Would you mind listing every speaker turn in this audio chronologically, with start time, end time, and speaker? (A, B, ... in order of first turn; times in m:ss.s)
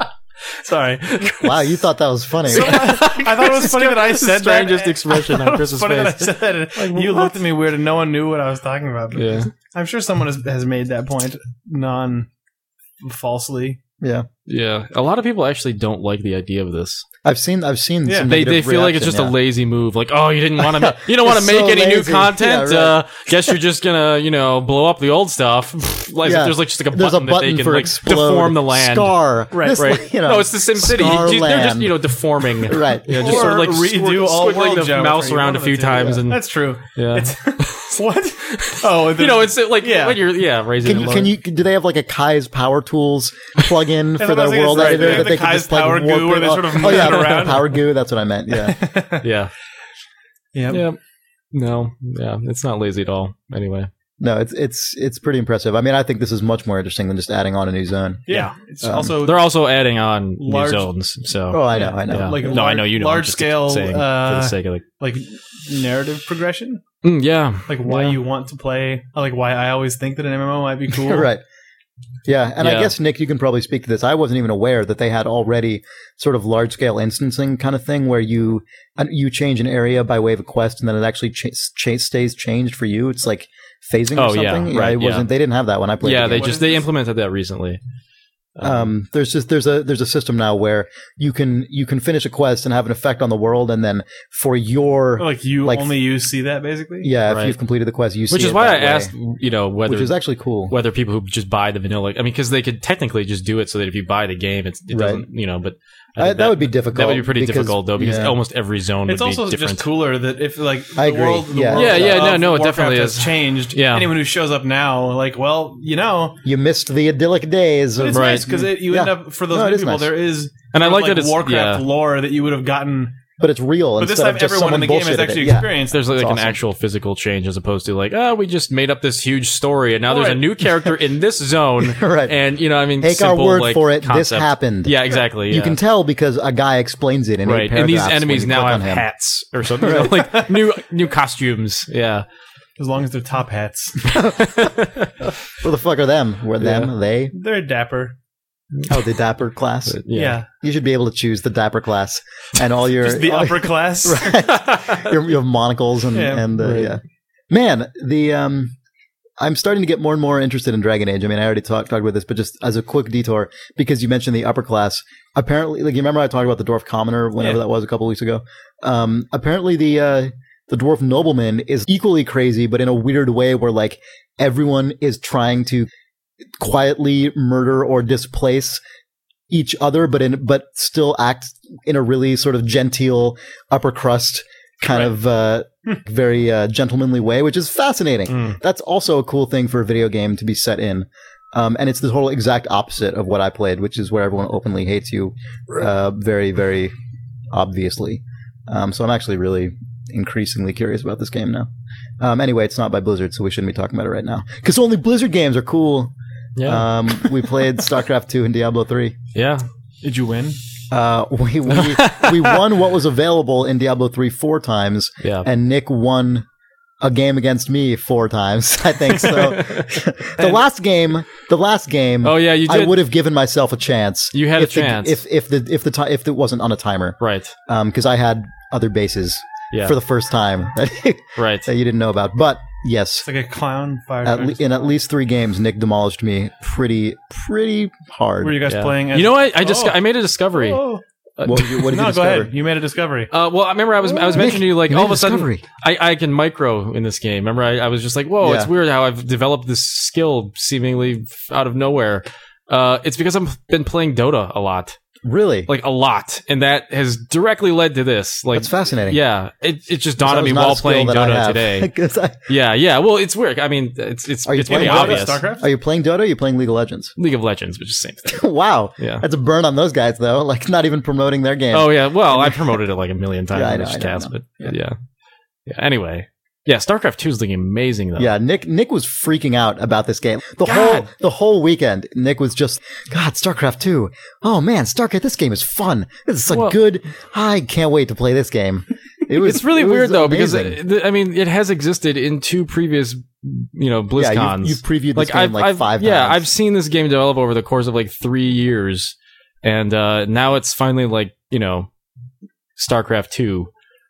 0:00.6-0:01.3 A
0:01.2-0:01.5 B
0:01.3-0:02.9 C
0:02.5-0:12.3 A
0:02.5-0:07.4 B
0:09.2-0:09.5 B
0:13.0-0:13.8 A
0:14.0-0:14.3 C
0:14.5-0:17.0 B
0:17.2-0:19.4 C
0:18.3-0:36.4 B
0:20.6-0:23.0 C
0:26.2-0:32.0 C
0:29.5-0:29.9 A
0:32.6-0:33.5 C
0:33.1-0:40.2 A
0:36.9-0:37.9 B
0:38.4-0:41.3 B
0:40.8-0:48.8 C
0:44.2-0:47.8 A
0:44.8-0:45.2 B
0:48.6-0:49.2 A
0:49.2-0:49.5 B
0:50.5-0:50.8 A
0:50.7-0:51.0 B
0:51.5-0:53.9 B
0:54.2-0:58.3 C
0:58.3-0:59.5 A
0:58.3-0:58.6 B
0:58.8-0:59.2 C
0:59.2-1:04.8 B
1:00.4-1:00.9 A
1:01.5-1:02.5 C
1:01.7-1:06.8 A
1:07.0-1:08.2 B
1:07.7-1:11.3 A
1:11.0-1:11.4 C
1:12.3-1:26.6 C
1:12.6-1:12.9 B
1:24.1-1:25.3 B
1:26.0-1:27.8 B
1:26.3-1:26.8 A
1:28.6-1:28.9 B
1:28.6-1:35.9 C
1:35.2-1:37.1 A
1:37.0-1:39.1 C
1:37.3-1:37.6 B
1:38.3-1:40.1 B
1:39.9-1:40.7 C
1:40.7-1:49.9 B
1:44.9-1:45.2 C
1:46.2-1:48.4 C
1:49.1-1:56.4 A
1:51.0-1:52.4 C
1:51.7-1:54.1 B
1:56.4-2:00.1 C
1:58.0-2:03.2 A
1:58.1-1:58.5 B
2:00.7-2:01.8 B
2:03.4-2:06.6 C
2:04.0-2:06.0 A
2:05.9-2:15.8 B
2:10.1-2:10.4 A
2:11.8-2:12.4 C
2:13.0-2:19.1 C
2:17.4-2:22.2 B
2:19.8-2:20.3 C
2:20.1-2:20.5 A
2:22.8-2:24.1 A
2:24.0-2:24.8 C
2:24.4-2:25.1 B
2:25.5-2:27.3 C
2:26.6-2:26.9 B
2:27.3-2:28.2 A
2:28.9-2:30.0 C
2:29.9-2:30.4 B
2:30.1-2:30.5 A
2:30.5-2:38.8 C
2:33.0-2:34.5 A
2:36.1-2:36.5 A
2:36.6-2:37.0 B
2:39.4-2:55.9 C
2:56.6-2:58.8 C
2:59.5-3:16.9 C
3:17.5-3:21.7 C
3:22.2-3:26.1 C
3:26.6-3:27.3 B
3:26.6-3:29.2 C
3:29.3-3:29.6 B
3:30.0-3:30.6 A
3:30.9-3:36.5 C
3:31.7-3:32.6 B
3:35.2-3:35.5 B
3:37.0-3:53.2 C
3:39.6-3:39.8 B
3:42.2-3:43.0 B
3:44.3-3:45.2 B
3:47.2-3:47.6 B
3:51.4-3:51.7 B
3:53.2-3:54.7 A
3:54.2-3:58.6 C
3:58.4-4:00.0 A
3:58.7-4:00.8 B
4:00.5-4:01.0 A
4:01.4-4:01.9 B
4:01.4-4:02.5 C
4:01.8-4:03.3 A
4:03.3-4:15.0 B
4:04.3-4:05.6 C
4:08.4-4:08.7 C
4:15.2-4:15.7 C
4:15.7-4:21.9 B
4:18.5-4:19.2 C
4:20.2-4:22.4 C
4:22.5-4:25.4 B
4:24.5-4:27.2 C
4:24.7-4:25.7 A
4:27.2-4:28.5 B
4:28.3-4:32.8 C
4:29.0-4:29.2 B
4:31.7-4:35.0 B
4:33.5-4:34.7 C
4:35.7-4:38.3 B
4:38.2-4:50.8 C
4:40.6-4:41.1 B
4:46.5-4:46.8 B
4:49.3-5:01.9 B
4:54.2-4:56.5 C
5:02.8-5:03.7 B